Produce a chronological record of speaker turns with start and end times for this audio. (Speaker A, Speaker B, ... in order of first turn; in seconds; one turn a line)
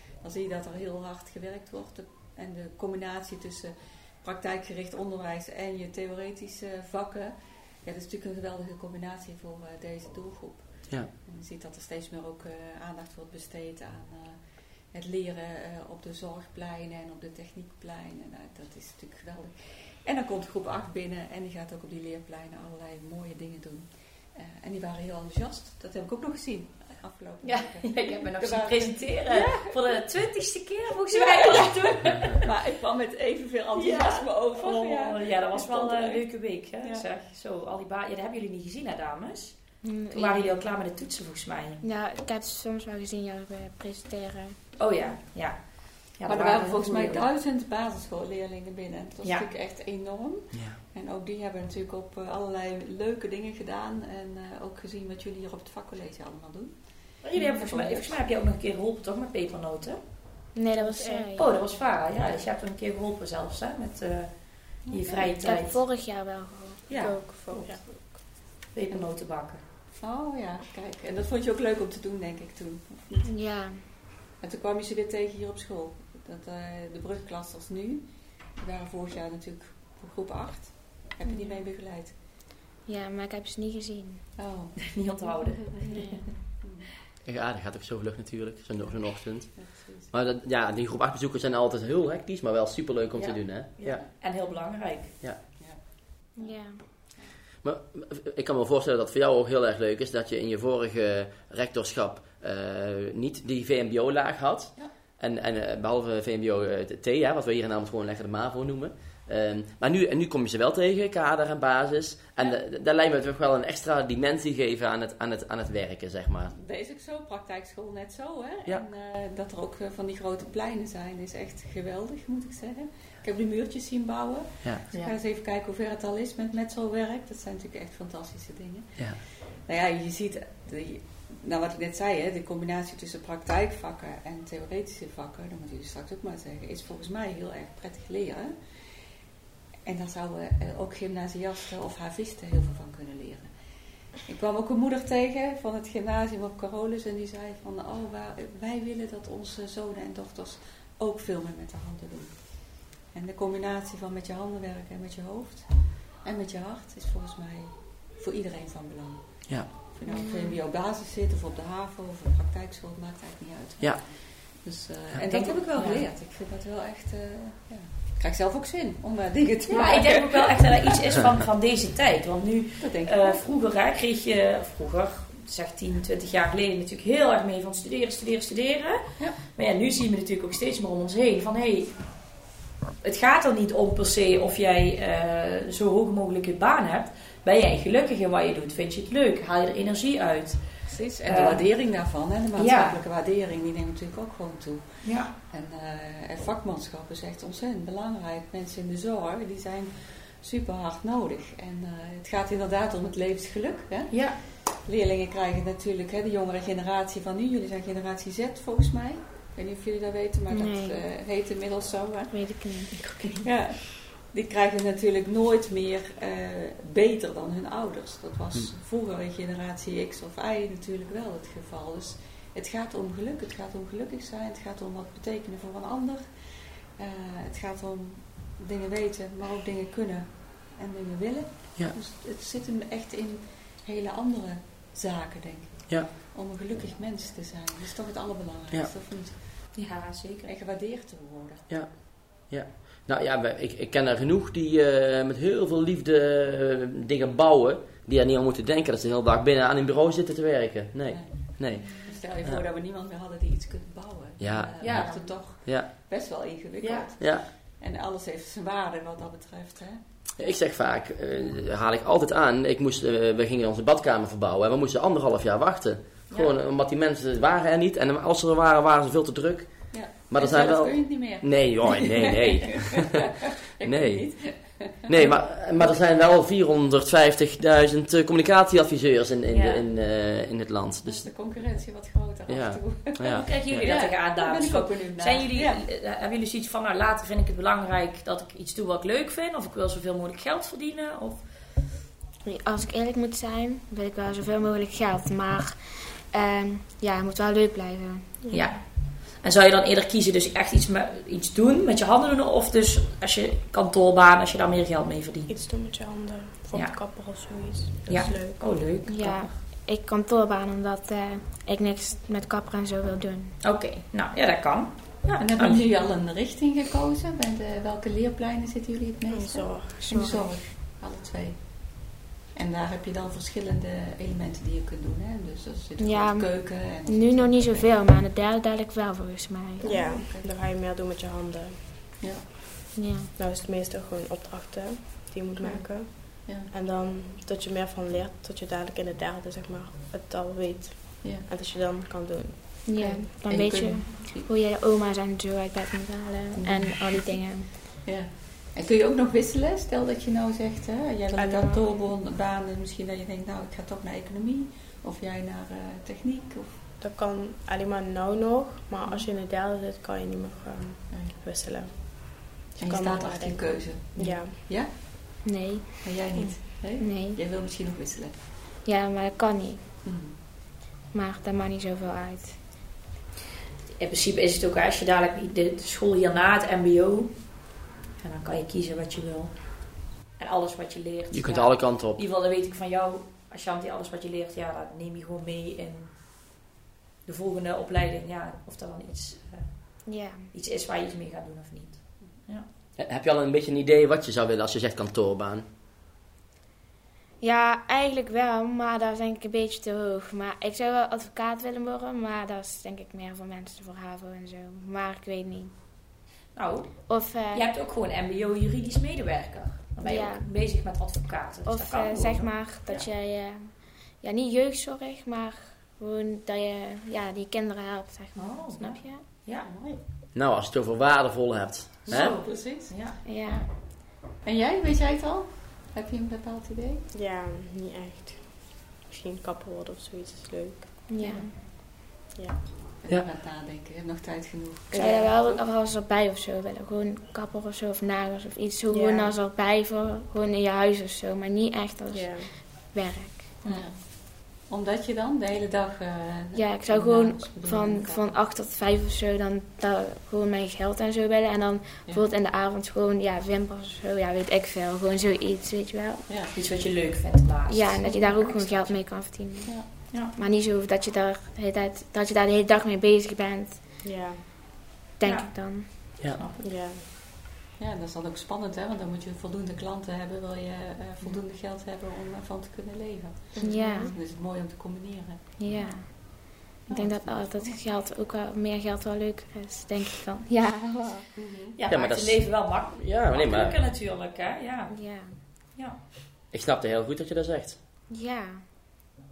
Speaker A: 0.2-29.8
Speaker B: 27.4-32.5
Speaker A: 31.1-36.3
Speaker B: 33.8-41.8
Speaker C: 39.8-40.6
Speaker C: 41.8-44.6
Speaker B: 44.8-47.2
Speaker A: 46.3-56.8
Speaker B: 49.2-49.5
Speaker D: 50.5-50.8
Speaker B: 57.2-60.0
Speaker A: 57.3-58.2
Speaker C: 60.5-61.5
Speaker E: 60.9-61.2
Speaker B: 61.4-65.8
Speaker A: 64.9-65.3
Speaker C: 65.4-67.1
Speaker B: 66.9-67.7
Speaker E: 67.0-68.2
Speaker B: 68.3-69.6
Speaker A: 70.0-73.3
Speaker C: 73.3-73.8
Speaker A: 74.4-82.2
Speaker C: 81.2-81.6
Speaker C: 82.9-84.2
Speaker A: 84.4-86.9
Speaker B: 84.8-86.0
Speaker C: 85.8-86.3
Speaker D: 87.2-94.0
Speaker A: 88.8-90.1
Speaker B: 93.2-95.1
Speaker A: 93.8-94.1
Speaker A: 95.5-95.8
Speaker C: 96.4-96.8
Speaker D: 97.6-116.5
Speaker A: 116.5-138.6
Speaker A: 139.8-143.5
Speaker A: 144.2-155.7
Speaker A: 156.2-170.7
Speaker C: 160.1-160.6
Speaker B: 165.3-166.1
Speaker B: 169.7-182.3
Speaker A: 172.8-173.4
Speaker B: 183.0-191.7
Speaker A: 190.9-212.3
Speaker B: 192.6-193.0
Speaker B: 195.0-195.3
Speaker B: 204.1-204.4
Speaker C: 210.5-211.0
Speaker C: 212.3-213.0
Speaker B: 213.0-213.4
Speaker A: 213.4-226.3
Speaker A: 227.0-239.8
Speaker B: 239.8-240.5
Speaker A: 240.4-241.7
Speaker D: 241.7-252.6
Speaker A: 251.1-260.0
Speaker D: 254.4-255.9
Speaker B: 254.8-255.3
Speaker B: 256.8-257.1
Speaker D: 257.2-257.5
Speaker D: 260.4-273.2
Speaker A: 269.9-276.0
Speaker D: 273.8-274.3
Speaker D: 275.1-281.3
Speaker B: 279.5-279.8
Speaker A: 281.0-285.8
Speaker D: 282.5-283.9
Speaker B: 283.3-291.4
Speaker C: 292.4-298.3
Speaker E: 298.4-298.7
Speaker B: 298.5-305.5
Speaker E: 305.5-308.7
Speaker B: 306.7-307.4
Speaker B: 308.1-309.5
Speaker C: 309.1-313.6
Speaker B: 313.6-315.8
Speaker A: 315.4-327.9
Speaker E: 319.3-320.2
Speaker C: 320.0-320.5
Speaker C: 326.0-330.1
Speaker E: 329.8-332.0
Speaker A: 329.9-330.5
Speaker C: 332.9-333.3
Speaker E: 333.4-343.1
Speaker A: 336.4-336.7
Speaker A: 341.2-341.5
Speaker C: 342.9-347.7
Speaker A: 343.0-344.5
Speaker A: 346.6-347.3
Speaker A: 348.0-356.7
Speaker E: 351.4-351.8
Speaker E: 357.0-364.7
Speaker A: 361.1-361.4
Speaker A: 362.8-365.4
Speaker C: 365.4-366.1
Speaker A: 366.0-368.4
Speaker C: 367.0-367.4
Speaker C: 368.8-369.8
Speaker A: 370.0-370.4
Speaker C: 371.1-372.6
Speaker B: 374.0-386.4
Speaker D: 381.3-382.2
Speaker B: 387.2-392.7
Speaker C: 390.1-390.5
Speaker D: 393.0-395.7
Speaker C: 397.4-405.8
Speaker B: 406.6-412.5
Speaker C: 407.1-407.7
Speaker C: 410.0-410.5
Speaker C: 411.7-419.2
Speaker B: 418.4-419.7
Speaker A: 419.6-420.0
Speaker D: 420.3-422.3
Speaker A: 422.1-423.1
Speaker B: 422.1-423.6
Speaker C: 423.2-423.7
Speaker A: 424.4-427.1
Speaker E: 427.1-431.1
Speaker C: 431.1-431.6
Speaker A: 431.2-431.5
Speaker A: 433.0-435.6
Speaker C: 434.9-443.6
Speaker E: 438.9-439.4
Speaker E: 442.1-442.5
Speaker A: 443.7-448.4
Speaker C: 446.6-456.3
Speaker A: 456.3-456.5
Speaker B: 456.5-459.0
Speaker C: 457.7-463.8
Speaker A: 459.6-459.9
Speaker B: 460.1-460.4
Speaker E: 464.0-464.4
Speaker C: 465.2-465.9
Speaker B: 465.2-466.7
Speaker E: 466.6-467.0
Speaker A: 467.8-477.8
Speaker E: 473.6-474.1
Speaker C: 473.6-474.1
Speaker C: 475.6-481.3
Speaker A: 481.4-481.8
Speaker B: 481.8-485.0
Speaker D: 481.9-483.8
Speaker C: 484.9-485.3
Speaker D: 486.5-487.8
Speaker C: 488.1-488.7